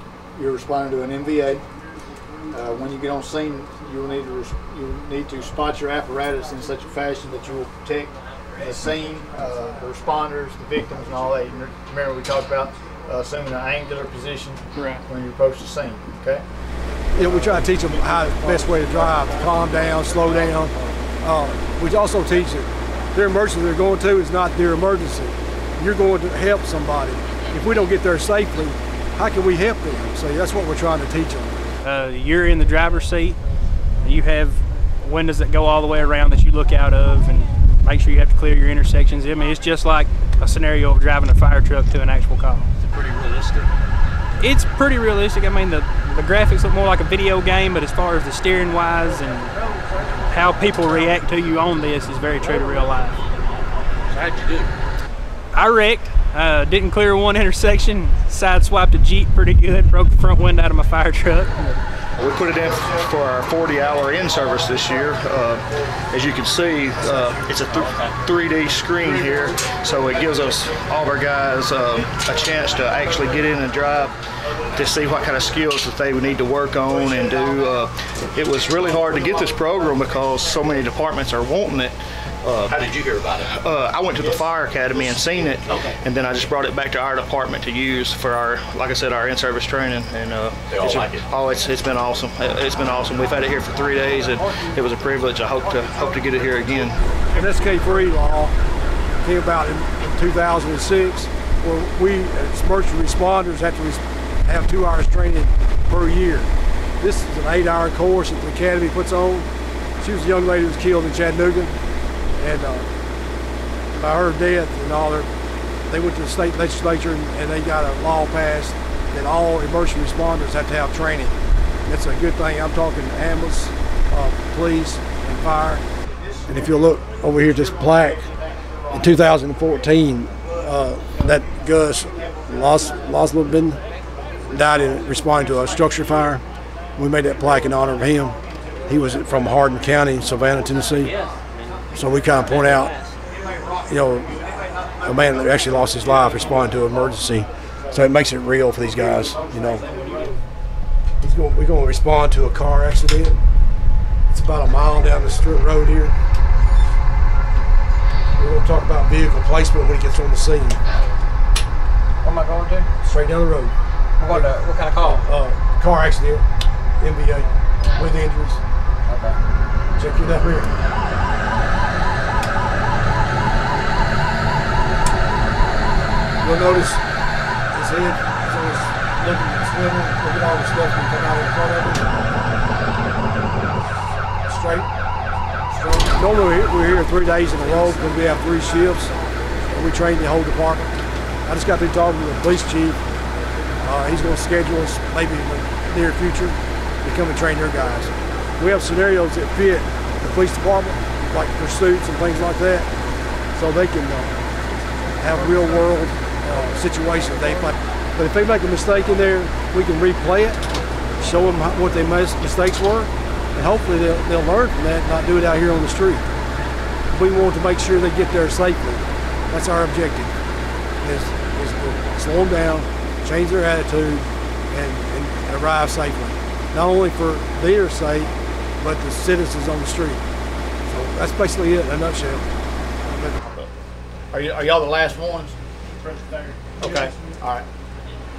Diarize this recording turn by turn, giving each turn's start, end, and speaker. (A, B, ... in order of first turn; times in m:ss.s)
0:00.4-0:01.6 A
0:02.5-0:16.4 A
0:14.7-0:15.0 B
0:17.1-0:31.7 C
0:31.8-0:33.4 B
0:34.0-0:42.7 B
0:42.8-0:43.7 D
0:44.4-0:49.6 B
0:50.3-0:53.2 B
0:54.1-0:54.7 D
0:55.5-1:01.8 B
1:02.2-1:14.1 E
1:14.7-1:37.0 E
1:22.9-1:23.4 D
1:37.3-1:38.5 C
1:39.2-1:49.5 C
1:50.0-1:51.8 C
1:52.4-1:52.9 C
1:53.9-1:55.3 C
1:55.9-2:05.8 C
2:06.5-2:08.3 C
2:08.9-2:13.8 C
2:14.5-2:16.4 C
2:17.0-2:18.4 C
2:18.9-2:21.1 C
2:21.9-2:22.9 C
2:23.9-2:24.3 C
2:25.0-2:29.9 C
2:31.2-2:33.4 C
2:34.3-2:36.2 C
2:38.4-2:40.8 C
2:42.2-2:42.9 F
2:43.0-2:43.8 C
2:44.2-2:45.2 F
2:45.0-2:46.4 C
2:47.0-2:48.6 C
2:49.1-2:49.4 F
2:50.0-2:50.7 C
2:56.4-2:57.0 C
2:57.7-3:02.1 C
3:04.4-3:04.9 C
3:05.7-3:09.1 C
3:09.7-3:10.9 C
3:11.4-3:13.0 C
3:13.8-3:22.9 C
3:23.5-3:24.3 C
3:25.2-3:30.6 C
3:31.2-3:36.2 C
3:37.1-3:40.3 C
3:41.0-3:50.2 C
3:50.8-3:52.5 C
3:53.0-3:53.4 C
3:53.4-3:53.7 A
3:54.3-3:55.6 A
3:56.8-3:57.7 A